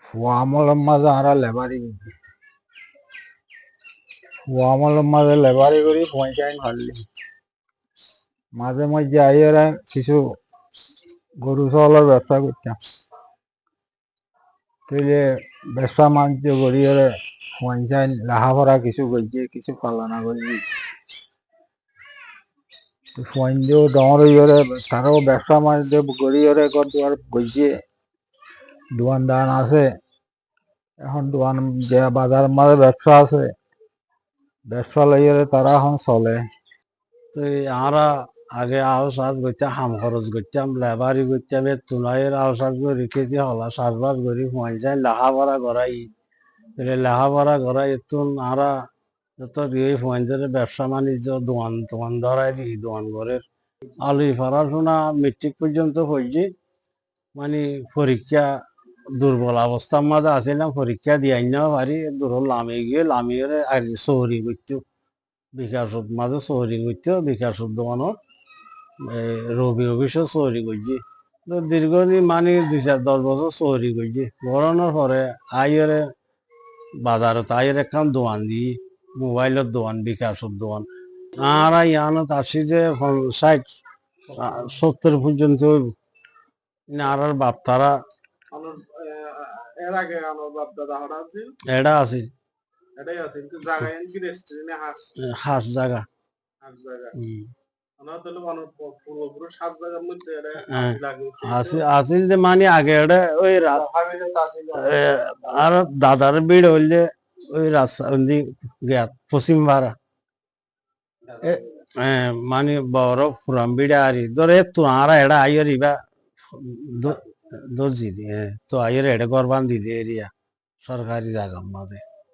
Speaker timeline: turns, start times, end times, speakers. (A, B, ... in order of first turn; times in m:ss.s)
0:00.1-0:02.0 A
0:04.5-0:07.0 A
0:08.6-0:10.2 A
0:11.4-0:12.8 A
0:14.9-0:20.6 A
0:23.2-0:27.7 A
0:28.9-0:29.9 A
0:31.0-0:33.5 A
0:34.7-0:36.4 A
0:37.3-0:46.1 B
0:46.8-0:48.7 B
0:49.4-0:53.4 B
0:54.0-0:56.5 B
0:57.4-0:58.5 B
0:59.2-1:04.8 B
1:05.6-1:08.2 B
1:09.0-1:16.1 B
1:17.0-1:20.9 B
1:21.4-1:23.7 B
1:24.4-1:25.9 B
1:26.9-1:28.0 B
1:28.5-1:31.6 C
1:31.7-1:32.3 B
1:33.0-1:35.0 C
1:35.2-1:36.0 B
1:36.6-1:37.2 C
1:37.2-1:37.5 B
1:38.0-1:41.8 C
1:40.8-1:43.8 B
1:43.8-1:45.0 C
1:44.8-1:49.9 B
1:51.4-1:56.0 B
1:56.5-1:57.2 B
1:57.7-2:00.3 B
2:00.8-2:02.0 B